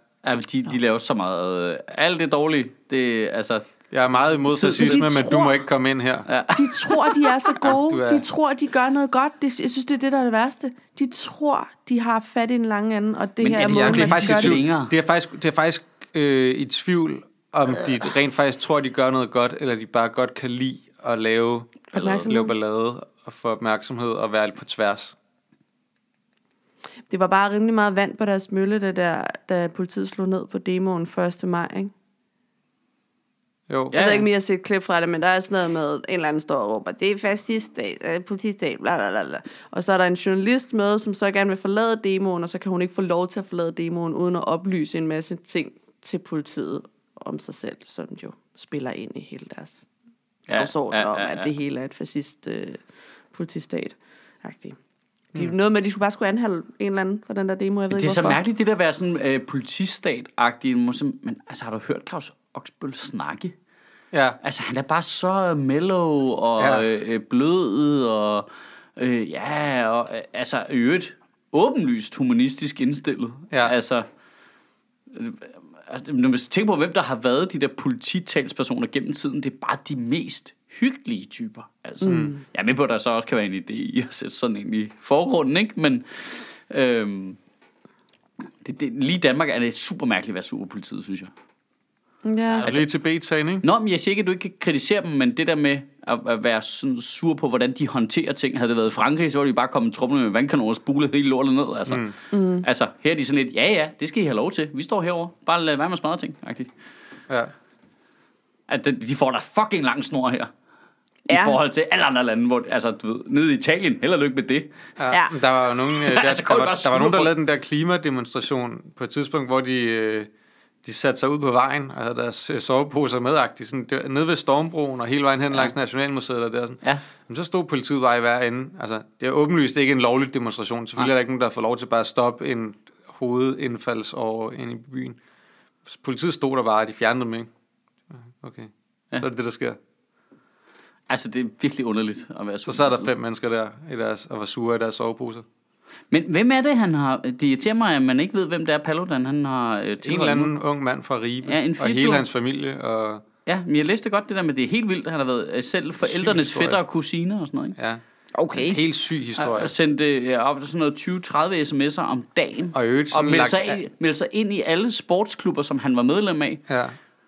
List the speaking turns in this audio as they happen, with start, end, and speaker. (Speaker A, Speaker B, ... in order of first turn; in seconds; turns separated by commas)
Speaker A: 0.2-3.6, Speaker B: 3.9-6.3, Speaker A: 4.5-5.2, Speaker C: 4.8-5.5, Speaker A: 6.3-7.3, Speaker C: 6.5-14.6, Speaker B: 7.6-8.2, Speaker A: 13.4-14.9, Speaker B: 13.6-25.1, Speaker C: 21.9-22.5, Speaker A: 22.0-22.3, Speaker C: 27.1-31.9, Speaker B: 33.7-34.0, Speaker A: 33.9-34.3, Speaker C: 33.9-49.9, Speaker A: 50.5-51.5, Speaker C: 50.5-52.8, Speaker C: 53.3-54.8, Speaker C: 55.3-58.4, Speaker A: 57.9-63.5, Speaker B: 64.1-64.4, Speaker A: 64.4-74.0, Speaker B: 66.6-66.8, Speaker A: 75.1-87.4, Speaker C: 82.0-82.4, Speaker B: 82.0-82.3, Speaker A: 88.6-91.3, Speaker C: 92.2-92.7, Speaker B: 92.6-93.6, Speaker A: 93.6-106.7, Speaker B: 101.9-102.1, Speaker C: 102.3-102.7, Speaker A: 108.7-110.5, Speaker C: 111.3-111.6, Speaker A: 111.3-114.7, Speaker B: 115.0-120.3, Speaker A: 115.9-117.3, Speaker B: 120.8-135.2, Speaker B: 135.9-137.5, Speaker B: 138.1-139.8, Speaker A: 141.1-143.1, Speaker B: 142.7-145.4, Speaker A: 146.1-150.5, Speaker B: 150.0-153.2, Speaker A: 151.4-152.2, Speaker A: 153.4-157.7, Speaker B: 156.0-156.8, Speaker B: 157.8-158.0, Speaker C: 158.3-158.8, Speaker B: 158.5-159.7, Speaker A: 159.4-166.6, Speaker B: 162.7-163.8, Speaker B: 166.7-166.9